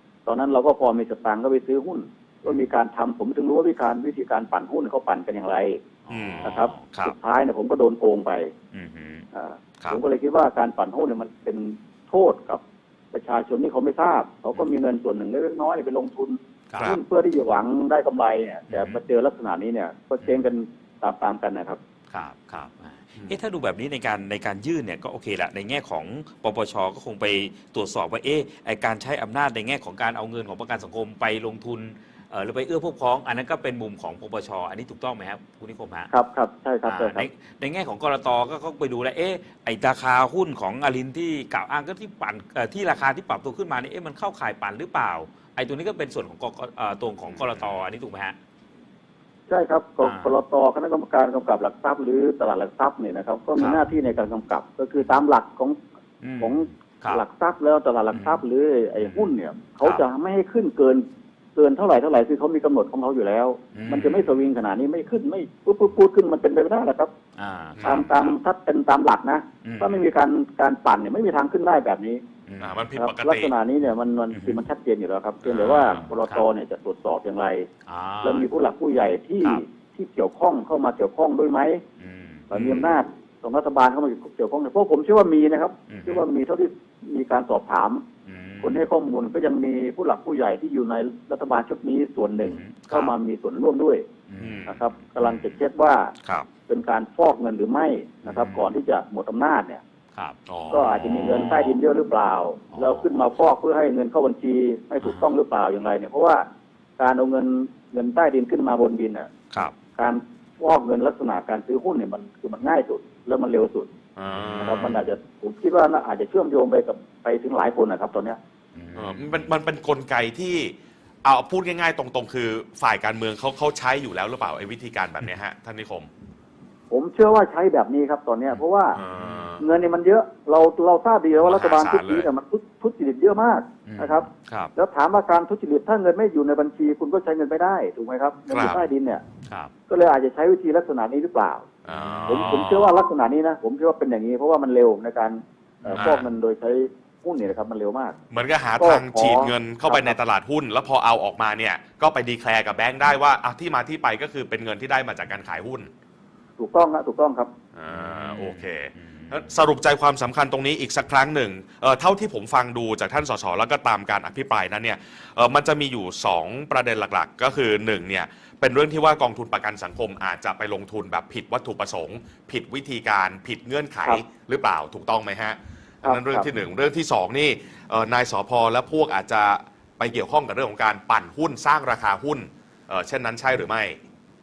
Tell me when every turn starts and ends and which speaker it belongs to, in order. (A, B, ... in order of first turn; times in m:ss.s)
0:00.2-0:05.8 A
0:06.0-0:07.2 B
0:06.1-0:06.5 C
0:06.4-0:08.5 A
0:08.7-0:09.2 B
0:09.3-0:21.8 A
0:16.7-0:16.9 B
0:18.7-0:19.0 B
0:20.2-0:20.5 B
0:22.1-0:36.1 B
0:36.1-0:37.3 A
0:36.8-0:48.4 B
0:49.5-0:55.8 A
0:50.0-0:50.3 B
0:53.6-0:53.8 B
0:56.2-0:57.2 B
0:56.4-1:01.0 A
0:58.1-0:58.4 B
1:01.6-1:07.1 A
1:03.7-1:04.3 B
1:07.4-1:08.3 B
1:07.8-1:08.1 C
1:07.8-1:12.2 A
1:09.6-1:10.0 B
1:12.5-1:12.8 B
1:12.6-1:13.5 C
1:12.9-1:17.7 A
1:14.3-1:14.6 B
1:15.4-1:16.0 C
1:15.6-1:16.4 B
1:17.9-1:18.5 B
1:18.2-1:21.8 A
1:22.0-1:22.5 B
1:22.5-1:28.0 A
1:22.5-1:22.9 C
1:25.9-1:26.2 B
1:28.2-1:28.8 B
1:28.6-1:34.1 A
1:32.4-1:33.1 B
1:34.3-1:35.6 B
1:34.4-1:34.8 C
1:34.7-1:36.1 A
1:36.7-1:39.8 A
1:38.2-1:38.7 B
1:40.1-1:41.8 B
1:40.5-1:40.9 C
1:40.7-1:46.4 A
1:42.7-1:43.2 B
1:45.0-1:45.3 B
1:47.0-1:49.3 A
1:50.0-1:53.9 A
1:54.2-1:55.0 C
1:54.3-1:55.0 B
1:54.6-1:58.4 A
1:58.7-1:59.5 B
1:59.0-2:06.1 C
2:06.9-2:09.0 A
2:08.9-2:09.6 C
2:09.2-2:09.4 B
2:09.6-2:19.2 A
2:11.3-2:12.3 C
2:13.8-2:14.7 B
2:18.5-2:18.8 C
2:19.4-2:19.7 B
2:19.9-2:21.7 A
2:21.8-2:22.6 C
2:21.9-2:23.0 B
2:22.2-2:28.2 A
2:25.8-2:26.3 B
2:25.9-2:26.2 C
2:28.3-2:35.9 C
2:28.8-2:30.2 A
2:36.6-2:37.5 A
2:37.7-3:04.0 C
2:37.9-2:39.5 B
2:56.0-2:56.5 A